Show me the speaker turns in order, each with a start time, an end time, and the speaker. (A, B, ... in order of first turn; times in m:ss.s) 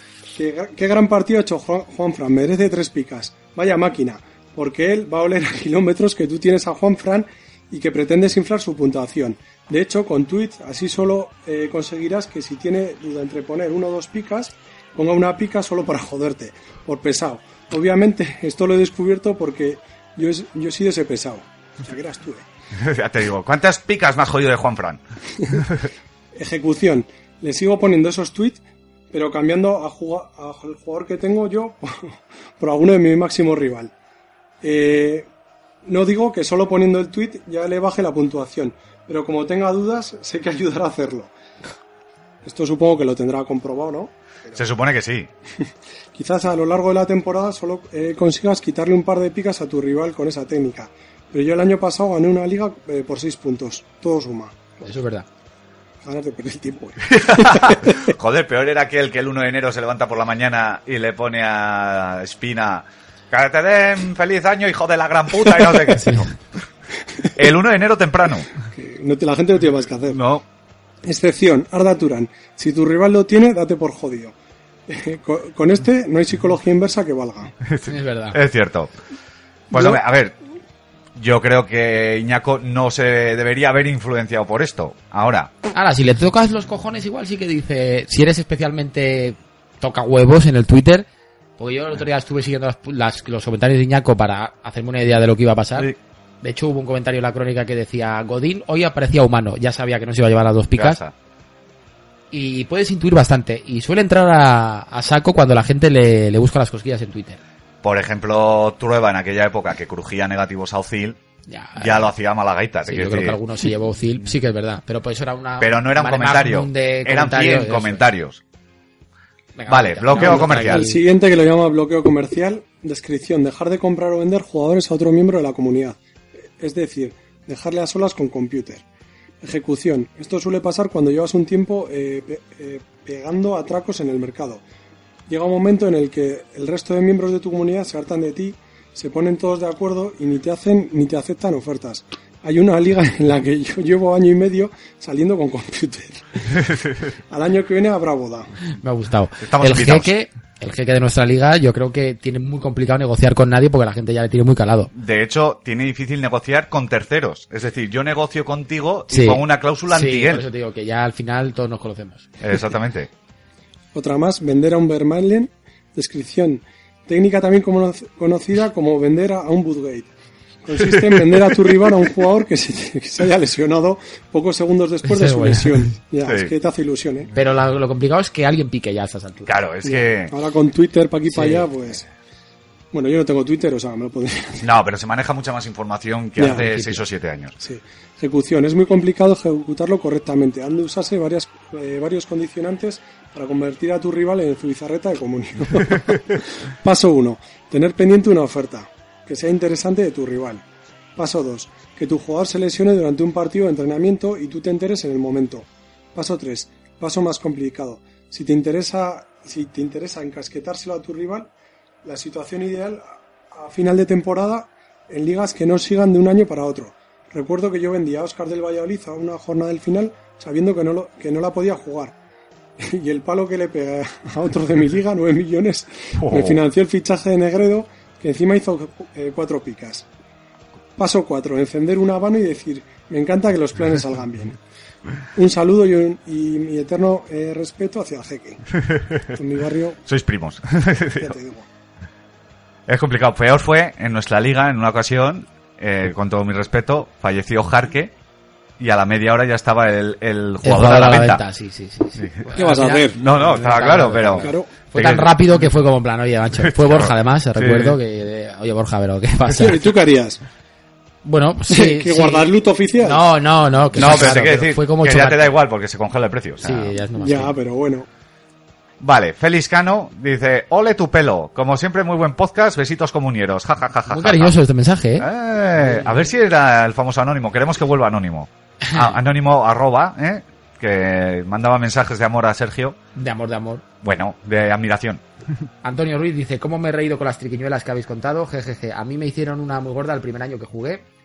0:00.4-0:22.4 A
0:22.8-0:25.0 B
0:25.5-0:25.9 B
0:26.4-0:28.6 A
0:29.1-0:33.9 A
0:34.6-0:35.3 A
0:35.8-0:41.3 A
0:42.4-0:44.6 A
0:44.5-0:45.3 B
0:46.2-0:54.8 A
0:54.8-0:55.3 C
0:56.0-0:57.9 A
0:57.1-1:06.4 B
1:06.0-1:06.2 C
1:07.4-1:08.5 B
1:08.7-1:10.2 A
1:10.1-1:10.4 B
1:11.1-1:14.3 A
1:14.9-1:17.5 A
1:17.6-1:18.9 B
1:17.9-1:18.4 C
1:19.7-1:20.0 A
1:19.7-1:20.4 B
1:21.2-1:25.5 B
1:25.8-1:31.1 C
1:31.6-1:35.9 C
1:36.4-1:41.0 C
1:40.7-1:41.1 B
1:42.3-1:47.4 C
1:47.8-1:51.2 B
1:51.5-1:52.1 C
1:51.8-1:53.4 B
1:52.9-1:58.0 C
1:55.6-1:58.4 B
1:59.6-2:01.0 C
1:59.7-2:00.9 B
2:00.1-2:06.0 A
2:06.6-2:08.8 A
2:09.4-2:14.6 A
2:15.3-2:26.2 A
2:27.3-2:28.5 A
2:28.8-2:34.9 C
2:29.4-2:30.1 B
2:34.9-2:40.5 B
2:39.1-2:42.3 C
2:42.4-2:43.1 B
2:43.9-2:50.1 A
2:50.6-2:57.3 A
2:50.7-2:52.0 B
2:55.1-2:55.8 C
2:56.2-2:56.5 B
2:57.3-2:59.5 C
2:59.5-3:00.3 B
2:59.9-3:02.0 A
3:01.3-3:01.7 C
3:02.9-3:04.7 A
3:04.6-3:07.6 B
3:06.4-3:06.6 A
3:06.5-3:07.0 C
3:07.6-3:20.6 A
3:21.2-3:31.5 A
3:32.0-3:42.1 A
3:42.8-3:50.1 A
3:46.2-3:46.6 B
3:51.0-3:54.6 A
3:55.4-3:58.6 A
3:59.3-4:00.0 A
4:00.1-4:01.4 B
4:01.2-4:01.7 A
4:02.9-4:08.1 B
4:08.8-4:11.4 B
4:10.6-4:19.9 C
4:12.2-4:15.5 B
4:12.6-4:13.2 A
4:14.4-4:14.7 A
4:16.6-4:18.0 B
4:19.6-4:20.4 A
4:21.2-4:25.5 C
4:21.7-4:23.3 A
4:23.9-4:27.0 B
4:26.6-4:27.5 C
4:27.2-4:28.1 A
4:29.0-4:34.6 B
4:34.1-4:35.3 C
4:35.2-4:43.0 B
4:35.8-4:36.1 C
4:43.2-4:43.8 C
4:44.0-4:45.2 B
4:45.8-4:51.0 C